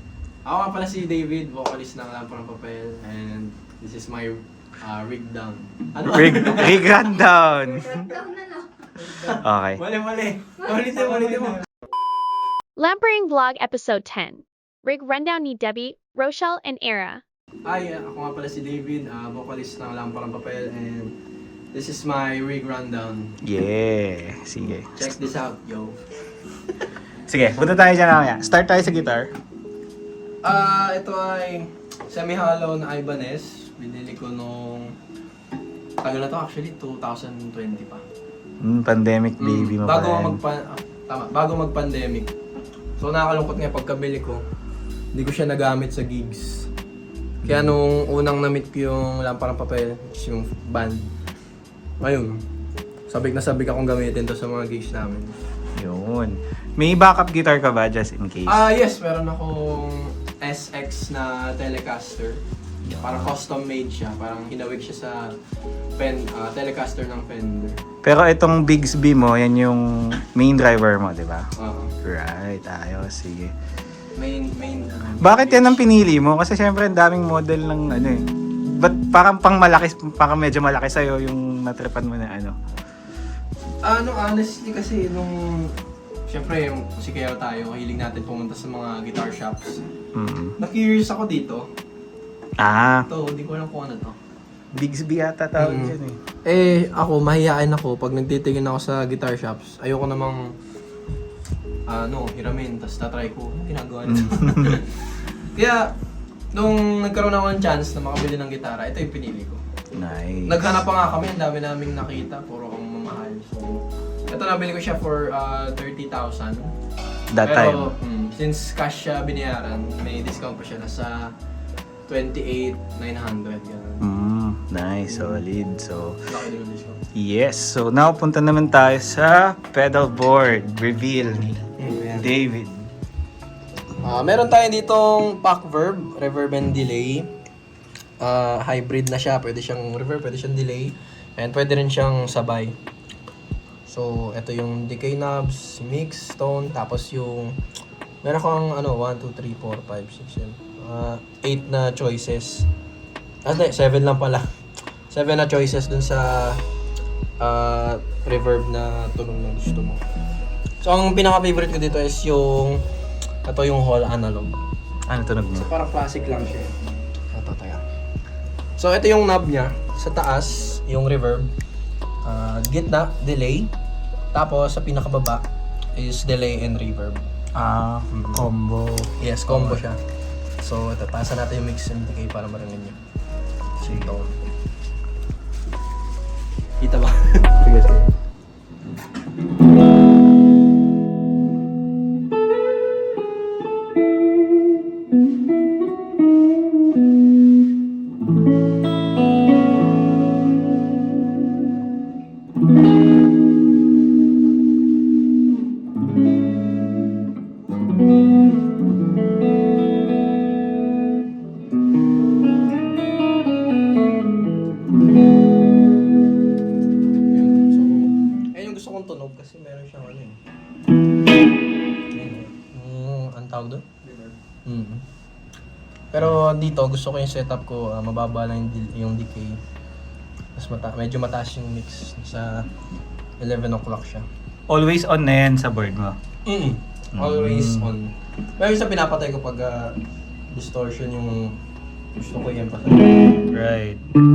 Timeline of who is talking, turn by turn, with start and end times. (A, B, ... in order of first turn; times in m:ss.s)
0:00.4-0:07.0 A
0:06.1-0:08.2 B
0:09.0-0:11.7 A
0:09.2-0:09.8 B
0:12.8-0:17.2 C
0:17.7-0:21.2 A
0:21.7-0:23.4 A
0:23.4-0:25.2 B
0:24.9-0:26.0 A
0:27.2-0:29.3 B
0:30.4-0:35.0 A
0:36.0-0:38.0 A
0:38.6-0:40.4 B
0:39.4-0:42.3 A
0:43.0-0:44.4 A
0:45.1-0:46.7 A
0:47.4-0:47.8 B
0:47.4-0:51.1 A
0:52.0-0:52.4 A
0:53.1-0:55.3 A
0:55.8-0:58.7 B
0:58.5-1:02.4 A
1:02.8-1:03.4 B
1:03.0-1:05.4 A
1:06.0-1:07.8 A
1:08.0-1:11.5 B
1:11.6-1:11.9 A
1:12.0-1:13.5 B
1:14.2-1:15.8 A
1:15.2-1:22.6 B
1:23.8-1:25.8 A
1:26.3-1:29.8 A
1:30.1-1:30.6 B
1:30.6-1:31.7 A
1:32.6-1:33.1 B
1:33.1-1:34.2 A
1:34.7-1:36.2 B
1:35.6-1:40.5 A
1:41.9-1:45.9 A
1:44.1-1:44.8 B
1:46.5-1:49.6 A
1:49.9-1:50.8 B
1:50.4-1:56.8 A
1:57.3-1:57.9 B
1:57.4-2:01.3 A
2:02.1-2:04.1 A
2:04.0-2:06.2 B
2:05.1-2:05.4 A
2:06.3-2:07.0 A
2:07.2-2:12.9 B
2:11.8-2:12.3 A
2:14.0-2:17.3 A
2:18.2-2:22.8 A
2:23.9-2:27.6 A
2:28.2-2:32.7 A
2:33.4-2:34.6 A
2:35.1-2:36.6 A
2:37.4-2:40.0 A
2:40.8-2:42.8 A
2:43.4-2:44.5 A
2:45.1-2:45.7 B
2:45.6-2:46.7 A
2:47.3-2:47.8 A
2:48.8-2:51.5 A
2:52.2-2:53.7 A
2:54.3-2:57.2 A
2:57.6-2:59.8 B
2:58.1-2:58.5 A
2:59.2-3:00.0 A
3:00.6-3:03.0 A
3:03.8-3:04.3 A
3:03.8-3:04.1 B
3:06.8-3:07.7 A
3:07.6-3:08.1 B
3:37.3-3:40.4 A
3:42.1-3:44.1 A
3:44.6-3:45.1 A
3:46.1-3:49.6 A
3:50.6-3:52.7 A
3:53.4-3:54.3 A
3:54.7-3:56.2 B
3:56.5-4:00.0 A
3:57.1-3:57.9 B
4:00.5-4:01.6 A
4:02.2-4:03.4 A
4:03.5-4:04.0 B